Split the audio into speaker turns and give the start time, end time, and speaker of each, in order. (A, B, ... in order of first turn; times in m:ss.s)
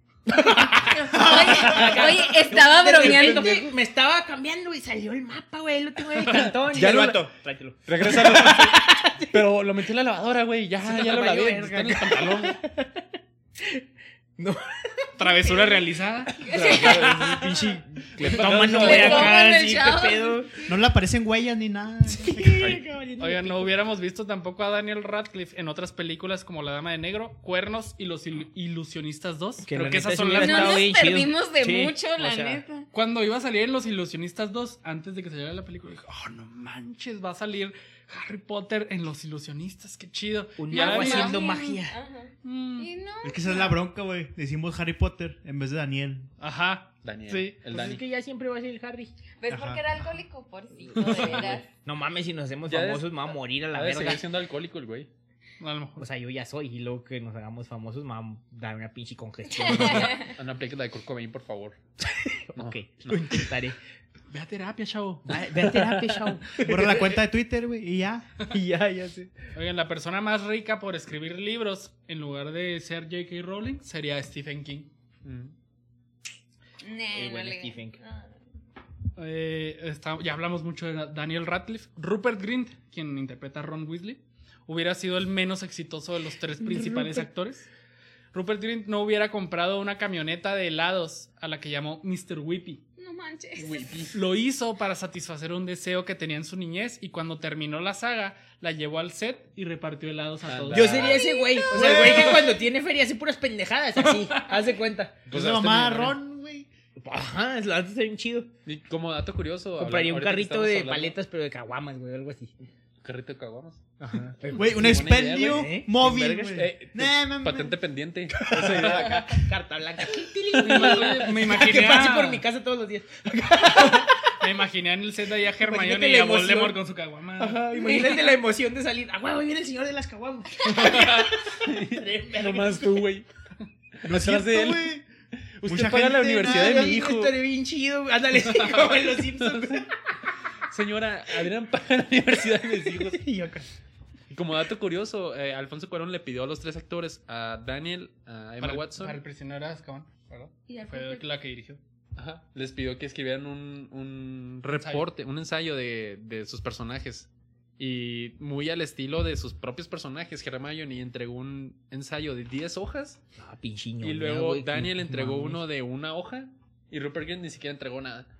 0:00.2-0:09.4 A
0:00.9-0:03.7 B
0:01.1-0:02.2 C
0:06.2-0:07.3 D
0:07.8-0:12.6 D
0:10.8-0:13.8 A
0:14.4-0:15.5 A
0:15.2-0:16.5 E
0:16.4-0:17.2 B
0:16.5-0:19.4 D
0:16.5-0:20.6 A
0:18.2-0:19.2 E
0:18.7-0:20.6 B
0:20.6-0:22.8 C
0:22.1-0:23.7 A
0:22.6-0:22.8 D
0:23.2-0:30.9 E
0:29.6-0:32.6 A
0:30.3-0:32.9 B
0:32.9-0:41.5 E
0:40.6-0:42.0 A
0:40.7-0:43.8 B
0:42.4-0:42.9 E
0:43.2-0:46.3 C
0:46.4-0:47.6 E
0:47.0-0:48.0 D
0:47.7-0:49.1 A
0:49.4-0:51.7 B
0:49.5-0:49.8 C
0:51.2-0:51.6 D
0:51.7-0:54.2 A
0:52.7-0:55.1 D
0:55.6-0:56.1 E
0:56.0-1:00.3 A
0:59.6-1:00.3 B
1:00.0-1:01.8 D
1:02.0-1:03.8 A
1:02.5-1:03.5 D
1:04.3-1:05.4 E
1:05.3-1:07.2 A
1:05.6-1:06.3 D
1:06.6-1:08.3 C
1:08.5-1:09.3 A
1:09.5-1:14.9 E
1:15.2-1:15.5 D
1:16.8-1:18.3 B
1:17.1-1:18.0 A
1:19.2-1:27.7 E
1:26.6-1:27.2 A
1:28.3-1:32.8 E
1:33.0-1:34.0 B
1:33.6-1:34.2 D
1:34.1-1:41.1 E
1:40.4-1:41.2 D
1:40.7-1:45.3 A
1:41.0-1:42.5 B
1:41.8-1:42.5 C
1:45.3-1:46.2 D
1:45.3-1:46.7 C
1:47.0-1:48.5 A
1:48.6-1:51.2 D
1:49.8-1:52.5 A
1:53.0-1:53.8 D
1:54.0-1:54.9 A
1:54.5-1:57.8 C
1:54.6-1:59.5 D
1:55.4-1:56.6 A
1:58.3-2:04.3 A
2:00.6-2:02.4 E
2:03.7-2:07.6 E
2:05.6-2:06.8 A
2:07.4-2:13.0 A
2:07.8-2:08.4 B
2:10.6-2:11.3 E
2:11.0-2:13.3 D
2:14.0-2:17.3 D
2:14.0-2:15.0 C
2:15.6-2:17.0 C
2:16.4-2:19.9 A
2:19.4-2:19.8 D
2:20.7-2:23.2 D
2:23.0-2:23.7 A
2:24.3-2:29.2 D
2:28.6-2:31.8 E
2:30.7-2:31.3 B
2:32.2-2:43.2 D
2:34.7-2:35.1 E
2:43.4-2:45.6 A
2:44.0-2:48.3 D